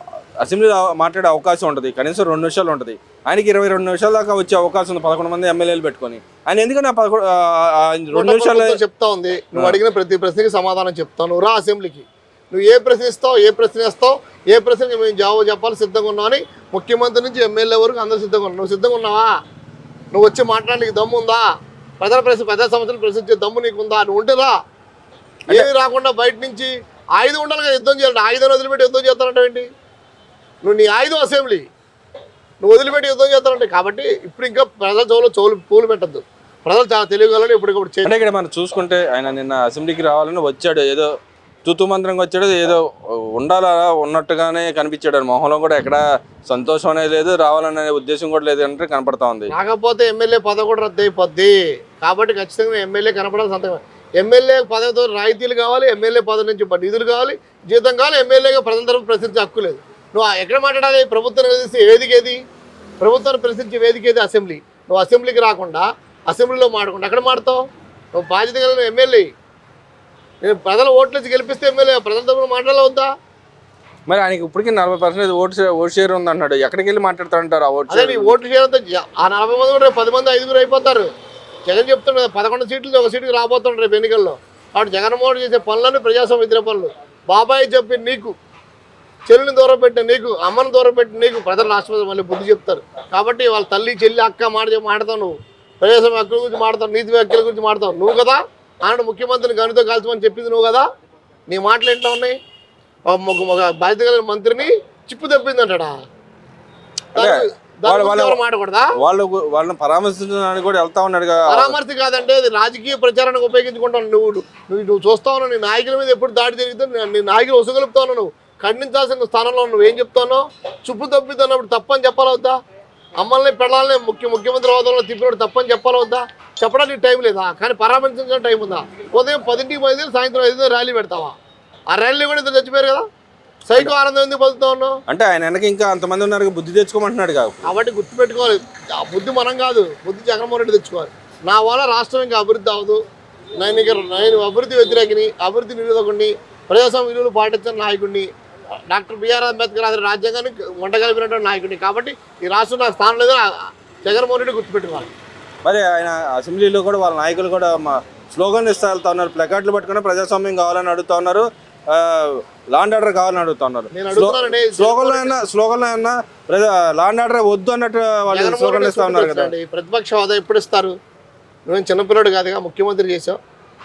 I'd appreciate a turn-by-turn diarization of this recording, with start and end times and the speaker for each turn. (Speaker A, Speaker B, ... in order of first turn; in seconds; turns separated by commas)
Speaker A: 0.4-8.8, Speaker B: 8.1-19.3, Speaker B: 20.1-24.5, Speaker B: 25.5-29.7, Speaker B: 30.6-31.6, Speaker B: 32.6-38.1, Speaker A: 38.0-41.1, Speaker A: 41.6-49.5, Speaker B: 49.5-62.4, Speaker B: 63.0-69.3, Speaker B: 70.4-73.1, Speaker A: 74.1-78.3, Speaker B: 77.9-81.1, Speaker B: 81.7-88.3, Speaker B: 89.3-100.8, Speaker B: 101.5-102.3, Speaker B: 103.1-105.9, Speaker B: 107.1-108.9, Speaker A: 107.2-108.4, Speaker A: 109.0-111.8, Speaker B: 111.5-122.5, Speaker B: 123.2-131.4, Speaker B: 131.9-133.1, Speaker B: 133.7-135.0, Speaker A: 135.1-137.7, Speaker B: 137.6-143.0, Speaker B: 143.6-148.3, Speaker B: 148.9-153.5, Speaker B: 154.0-155.1, Speaker A: 155.6-169.5, Speaker B: 163.9-165.3, Speaker B: 168.3-170.9, Speaker B: 171.7-173.4